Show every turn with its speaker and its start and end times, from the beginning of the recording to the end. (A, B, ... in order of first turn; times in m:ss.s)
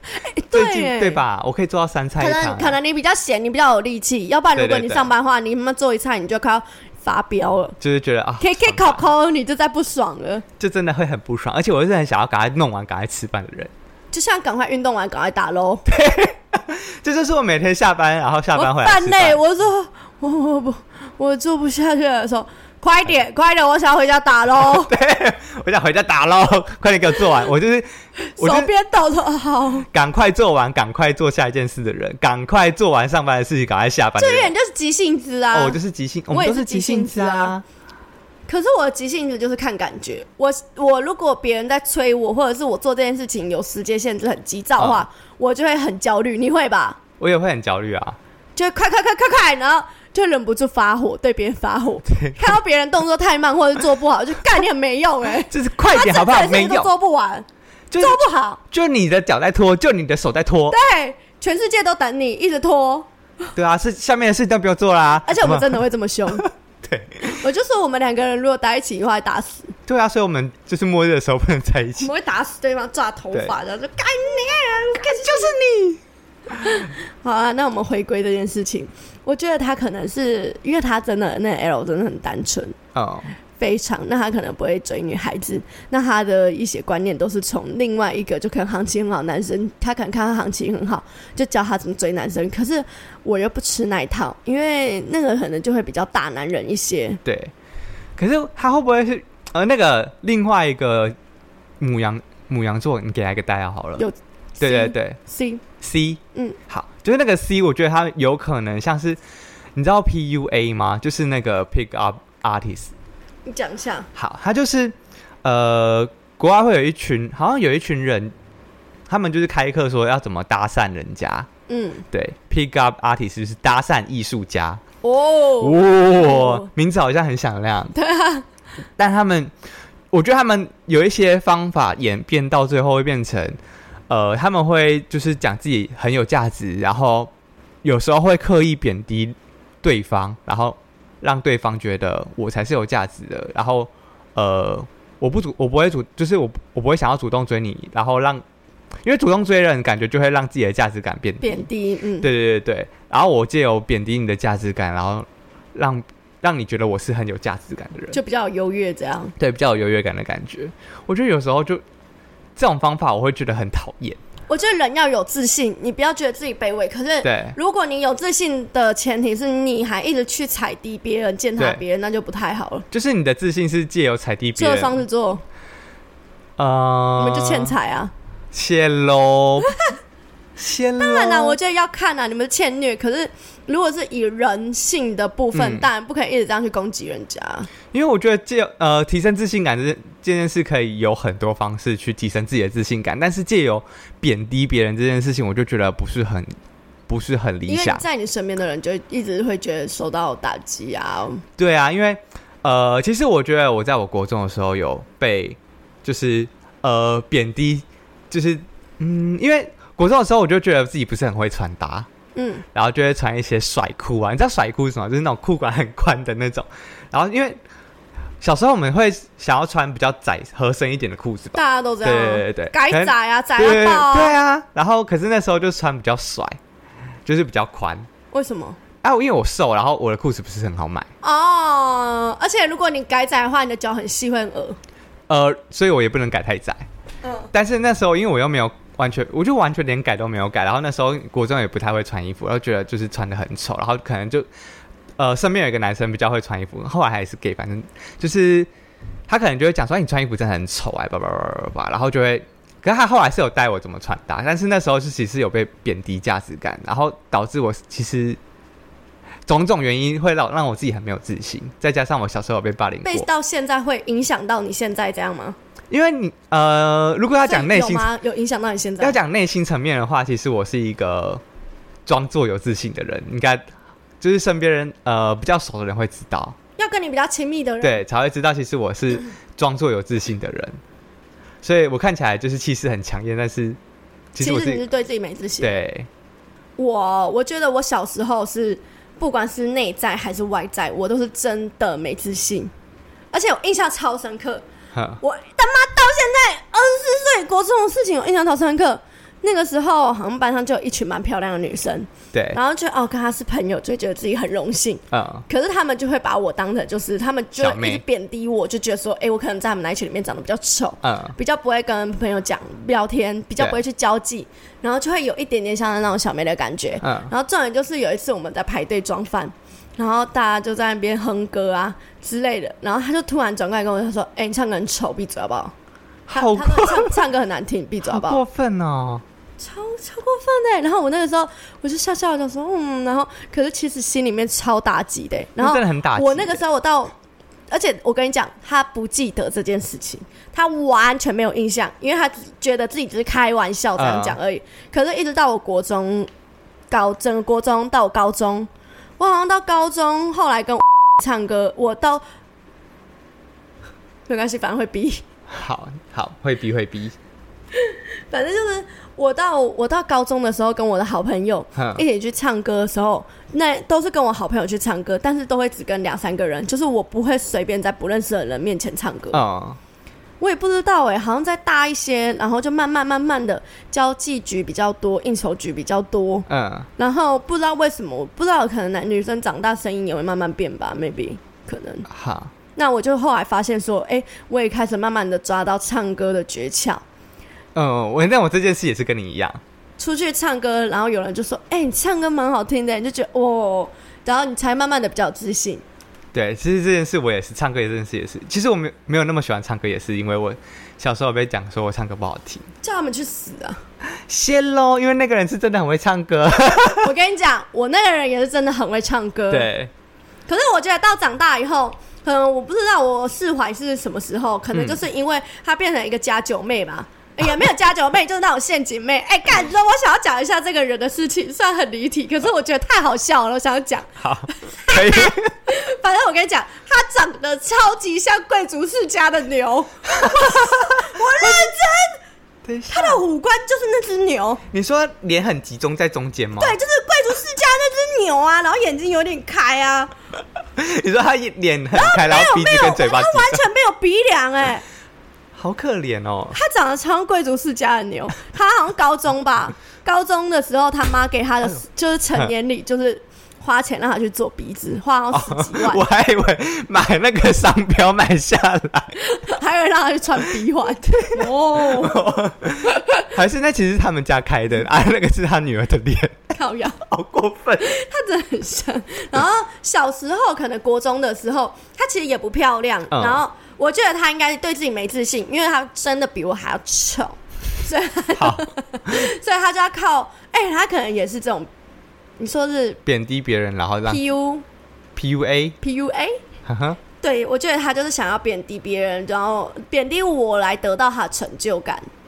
0:00.1-0:01.2 A
0:00.5-0:02.8 B
0:02.2-0:07.8 A
0:04.6-0:05.1 B
0:07.8-0:09.0 B
0:08.4-0:10.4 A
0:10.6-0:13.7 B
0:14.1-0:15.9 A
0:15.9-0:19.4 B
0:18.6-0:24.9 A
0:24.6-0:28.7 B
0:28.3-0:29.9 A
0:29.9-0:34.5 B
0:34.2-0:35.8 A
0:35.5-0:37.6 B
0:36.3-0:37.6 A
0:38.5-0:47.0 A
0:44.8-0:45.0 B
0:47.2-0:48.2 B
0:48.6-0:57.5 A
0:52.1-0:52.6 B
0:55.5-0:56.9 B
0:57.9-0:58.2 B
0:58.0-0:58.6 A
0:58.7-1:00.8 B
1:00.7-1:03.1 A
1:03.6-1:07.4 B
1:05.2-1:06.5 A
1:07.3-1:09.7 A
1:09.9-1:12.1 B
1:12.0-1:15.6 A
1:15.0-1:16.0 B
1:16.6-1:22.8 A
1:23.0-1:23.3 B
1:23.6-1:37.2 A
1:37.2-1:37.5 B
1:38.2-1:41.2 B
1:41.8-1:44.0 B
1:44.0-1:45.6 A
1:44.6-1:45.2 B
1:45.8-1:49.2 B
1:49.8-1:52.9 B
1:53.5-1:54.1 A
1:54.1-1:58.3 B
1:59.1-2:01.5 B
2:01.7-2:02.0 A
2:02.1-2:04.8 B
2:05.0-2:06.7 A
2:05.6-2:08.0 B
2:07.9-2:08.4 A
2:09.0-2:09.5 B
2:10.1-2:13.6 B
2:14.1-2:17.3 B
2:17.8-2:28.4 B
2:29.0-2:31.7 B
2:31.4-2:32.3 A
2:32.2-2:38.2 B
2:38.1-2:39.4 A
2:39.4-2:41.8 B
2:42.6-2:44.2 B
2:44.5-2:52.9 A
2:47.2-2:47.6 B
2:52.9-2:55.0 B
2:54.6-2:55.4 A
2:56.6-2:57.8 B
2:57.2-2:58.1 A
2:58.5-2:59.7 B
3:00.6-3:01.6 B
3:01.0-3:07.7 A
3:05.5-3:05.9 B
3:07.9-3:16.5 B
3:17.1-3:18.0 B
3:17.7-3:21.4 A
3:21.6-3:32.1 B
3:32.4-3:32.6 A
3:32.7-3:37.6 B
3:38.4-3:46.6 B
3:41.6-3:44.3 A
3:47.3-3:48.1 B
3:48.3-3:48.8 A
3:49.0-3:51.1 B
3:51.2-3:54.8 A
3:55.3-3:56.9 B
3:57.2-3:57.5 A
3:57.5-4:04.5 B
4:05.2-4:08.7 B
4:09.3-4:18.4 B
4:19.5-4:23.3 B
4:23.0-4:25.6 A
4:25.9-4:28.1 B
4:27.4-4:29.2 A
4:29.0-4:31.4 B
4:32.1-4:33.6 B
4:34.2-4:36.6 B
4:36.8-4:38.0 A
4:37.8-4:40.8 B
4:41.6-4:43.8 B
4:44.3-4:44.8 B
4:44.4-4:45.8 A
4:45.6-4:46.1 B
4:46.8-4:52.7 A
4:53.3-4:54.6 A
4:54.9-4:55.2 B
4:55.2-5:25.7 A
5:02.3-5:02.6 B
5:05.1-5:05.5 B
5:07.6-5:08.0 B
5:11.0-5:11.4 B
5:17.0-5:17.3 B
5:26.3-5:27.2 B
5:26.3-5:28.4 A
5:28.0-5:29.2 B
5:29.6-5:37.1 A
5:35.6-5:36.6 B
5:37.7-5:46.3 A
5:44.0-5:44.4 B
5:46.9-5:52.2 A
5:54.3-5:55.2 A
5:55.5-5:57.2 B
5:57.7-6:09.4 A
6:01.8-6:02.0 B
6:09.3-6:09.8 B
6:10.4-6:22.1 A
6:16.5-6:16.9 B
6:22.1-6:22.5 B
6:22.8-6:27.0 A
6:27.8-6:29.6 B
6:30.0-6:35.8 A
6:36.3-6:42.7 B
6:42.8-6:43.8 A
6:44.3-6:47.1 B
6:47.0-6:49.7 A
6:49.5-6:49.9 B
6:50.5-7:12.2 A
6:54.7-6:55.0 B
7:04.2-7:05.6 B
7:10.2-7:11.1 B
7:12.6-7:13.2 B
7:12.9-7:14.6 A
7:14.7-7:16.8 B
7:16.6-7:20.1 A
7:20.8-7:23.6 B
7:21.9-7:24.8 A
7:25.6-7:26.6 B
7:26.5-7:36.0 A
7:35.3-7:39.2 B
7:39.2-7:42.4 A
7:41.1-7:47.9 B
7:42.9-7:43.3 A
7:46.5-7:47.0 A
7:47.8-8:01.7 A
7:53.1-7:53.4 B
7:58.4-7:59.2 B
8:02.4-8:03.0 A
8:03.1-8:04.2 B
8:04.1-8:04.6 A
8:05.2-8:05.8 B
8:05.8-8:06.4 A
8:06.7-8:07.0 B
8:07.2-8:12.1 A